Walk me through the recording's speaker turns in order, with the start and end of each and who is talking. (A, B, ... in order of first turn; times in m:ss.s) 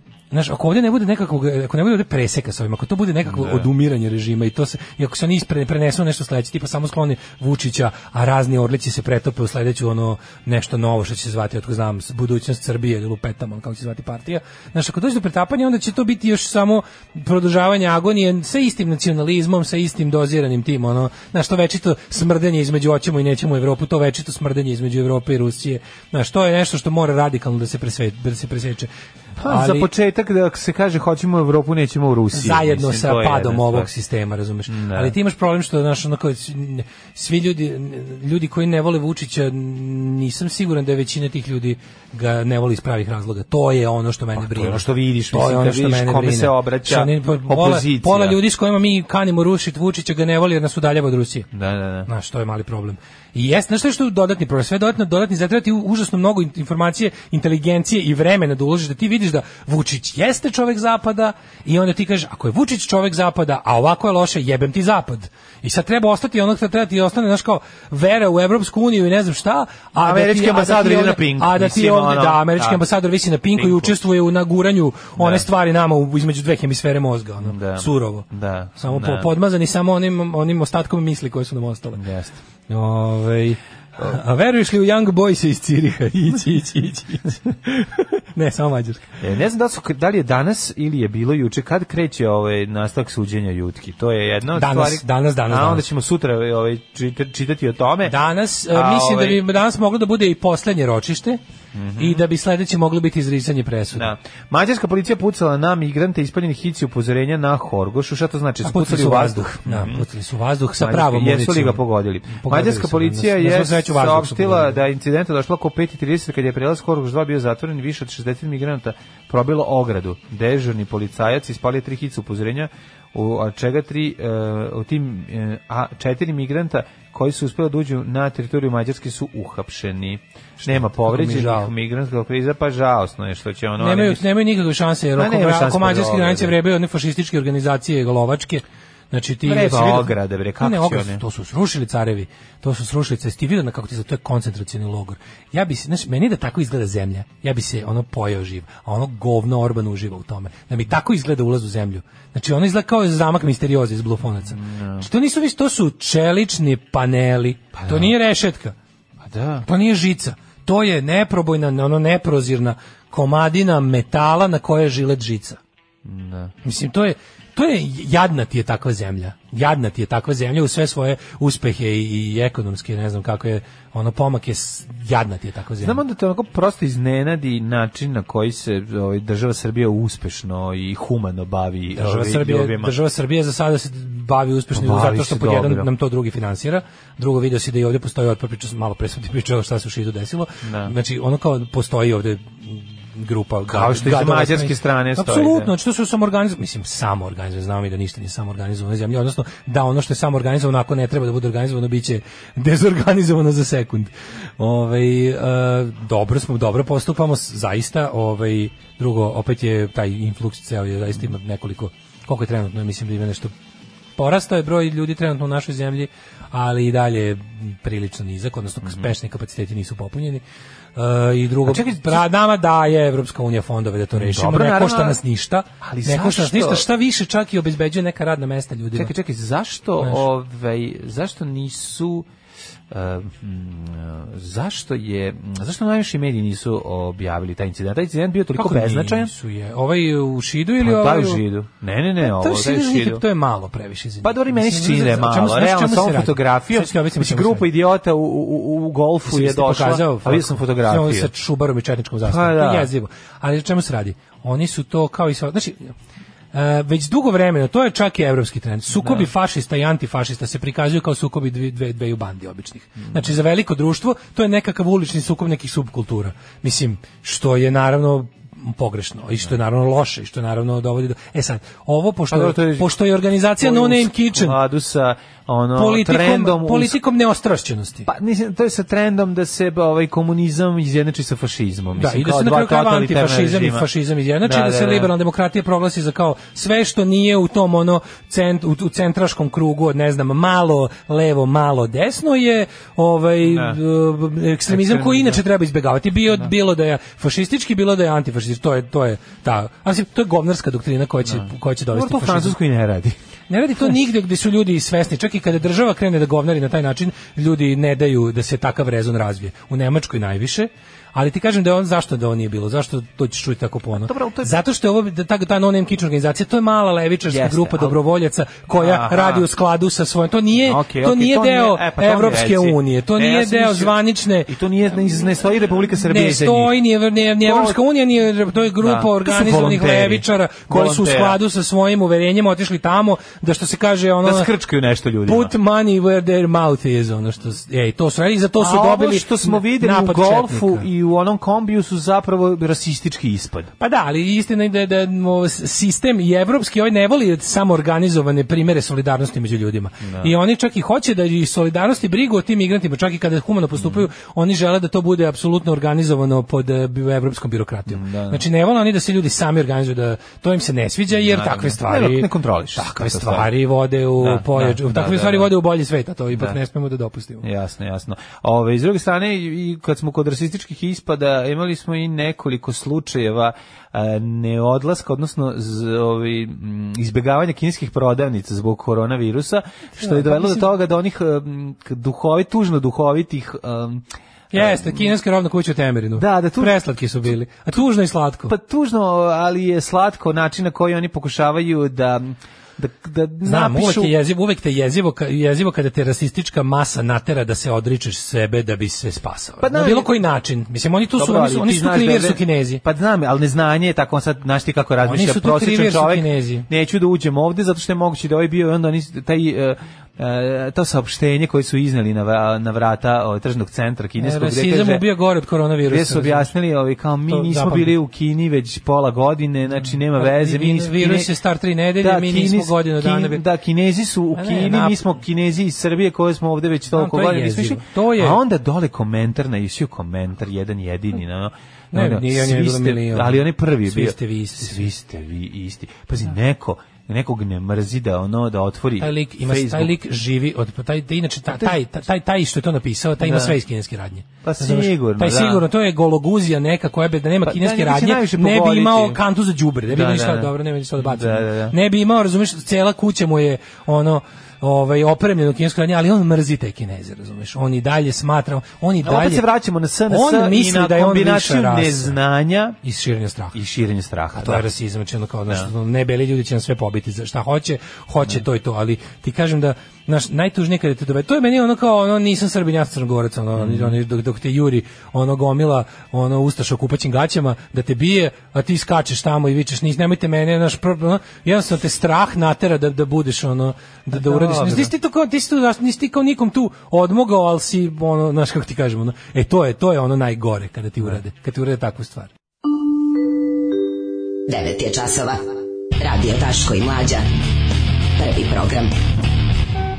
0:00.3-0:28.9 A
0:03.3-0:03.7 B
0:29.4-0:33.9 B
0:29.4-0:29.9 A
0:32.3-0:51.5 A
0:34.7-0:35.1 B
0:44.3-0:48.4 B
0:51.5-0:52.1 B
0:52.1-1:22.0 A
1:10.0-1:12.8 B
1:13.6-1:13.9 B
1:15.2-1:15.4 B
1:17.4-1:19.3 B
1:22.0-1:22.4 B
1:22.7-1:29.1 A
1:29.2-1:38.1 B
1:34.6-1:35.8 A
1:38.0-1:41.4 A
1:38.7-1:39.4 B
1:41.7-1:42.2 B
1:42.0-1:44.2 A
1:43.9-1:50.0 B
1:48.6-1:54.8 A
1:50.8-2:14.3 B
2:10.6-2:11.7 A
2:13.8-2:38.7 A
2:15.2-2:16.6 B
2:19.4-2:21.2 B
2:34.5-2:35.1 B
2:37.7-2:38.1 B
2:39.2-2:39.7 B
2:39.6-2:45.6 A
2:46.0-2:46.5 B
2:46.6-2:56.0 A
2:55.8-3:02.9 B
3:02.0-3:33.5 A
3:04.7-3:05.9 B
3:10.6-3:10.9 B
3:13.7-3:15.7 B
3:34.2-3:40.4 A
3:38.8-3:39.1 B
3:41.0-3:49.1 A
3:41.6-3:42.2 B
3:44.1-3:45.2 B
3:45.8-3:46.8 B
3:48.9-3:52.3 B
3:50.0-3:50.3 A
3:52.9-3:59.3 B
3:58.6-4:01.4 A
4:00.8-4:03.2 B
4:02.2-4:07.7 A
4:04.2-4:11.3 B
4:09.3-4:15.9 A
4:12.2-4:12.9 B
4:16.5-4:34.6 A
4:18.9-4:19.3 B
4:32.3-4:32.9 B
4:33.6-4:37.0 B
4:35.7-4:38.1 A
4:38.0-4:43.9 B
4:42.0-5:02.6 A
4:44.4-4:45.1 B
4:53.4-4:53.8 B
4:54.7-4:55.4 B
5:01.2-5:03.2 B
5:03.5-5:24.5 A
5:13.9-5:14.6 B
5:17.3-5:18.0 B
5:18.7-5:19.5 B
5:20.6-5:26.8 B
5:26.1-5:34.5 A
5:27.4-5:27.8 B
5:28.8-5:31.4 B
5:34.2-5:35.5 B
5:35.2-5:40.9 A
5:38.6-5:43.7 B
5:43.8-6:07.4 A
5:50.0-5:50.3 B
5:53.8-5:54.0 B
5:57.9-5:58.4 B
6:01.1-6:03.5 B
6:04.2-6:05.5 B
6:07.4-6:25.1 B
6:20.0-6:20.7 A
6:24.5-6:28.5 A
6:26.2-6:26.8 B
6:28.5-6:34.1 B
6:33.4-6:42.8 A
6:39.6-6:40.1 B
6:41.2-6:55.1 B
6:45.0-6:46.7 A
6:54.2-6:56.5 A
6:55.8-7:01.3 B
6:57.3-6:58.0 A
6:59.8-7:03.4 A
7:02.0-7:19.9 B
7:04.3-7:05.0 A
7:06.9-7:08.4 A
7:11.9-7:14.9 A
7:19.0-7:39.4 A
7:21.5-7:21.8 B
7:23.2-7:23.6 B
7:24.4-7:25.6 B
7:27.4-7:29.2 B
7:29.9-7:31.7 B
7:39.0-7:42.8 B
7:40.1-7:42.2 A
7:42.8-7:43.6 A
7:43.5-7:44.7 B
7:44.3-8:12.3 A
7:53.6-7:54.0 B
8:04.1-8:04.9 B
8:14.5-8:17.3 C
8:18.2-8:18.9 C